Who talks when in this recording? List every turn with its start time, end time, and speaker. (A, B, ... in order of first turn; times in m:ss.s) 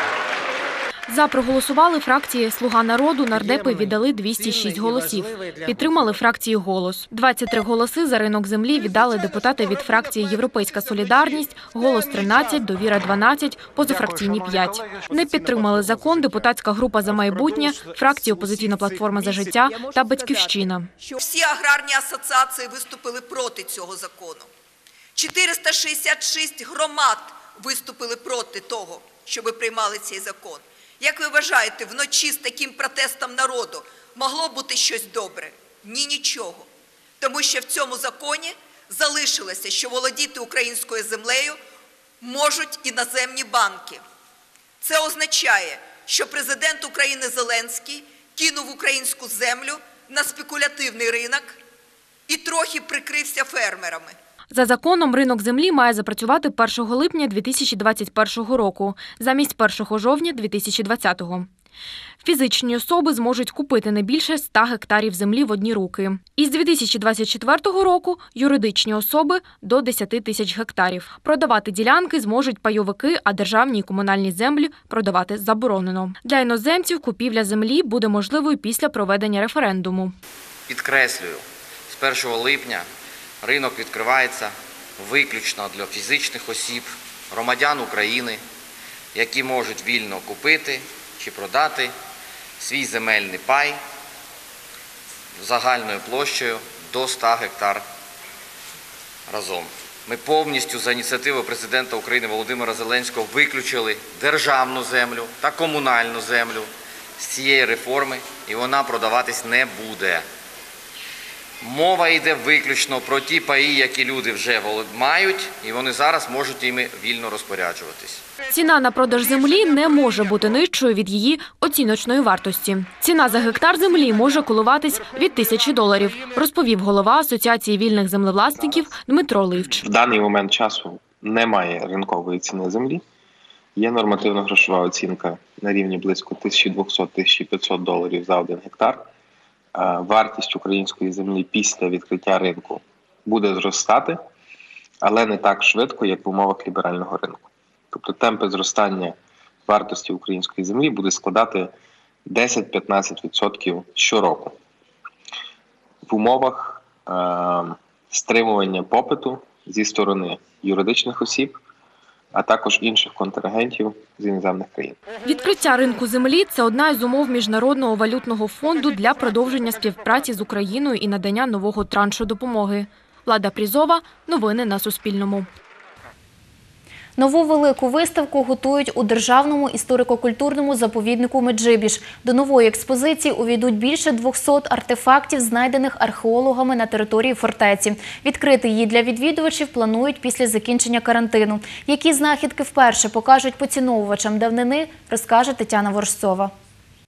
0:01.1-0:20.9 A
0:19.2-0:24.5 B
0:25.2-0:36.7 B
0:37.2-0:41.6 B
0:42.2-0:44.0 B
0:44.8-0:51.6 B
0:52.3-0:54.1 B
0:54.5-1:01.5 A
1:02.2-1:20.1 A
1:20.7-1:22.9 C
1:23.4-1:28.4 C
1:29.1-1:31.9 C
1:32.6-1:33.8 C
1:35.4-1:37.8 C
1:39.3-1:50.2 C
1:51.6-1:58.2 C
1:58.5-2:09.8 A
2:09.8-2:13.0 D
2:13.8-2:19.0 D
2:19.8-2:24.2 D
2:25.0-2:29.2 D
2:29.7-2:31.7 D
2:32.3-2:34.6 D
2:36.1-2:41.6 D
2:42.3-2:45.0 D
2:45.2-2:55.5 A
2:57.2-3:16.5 E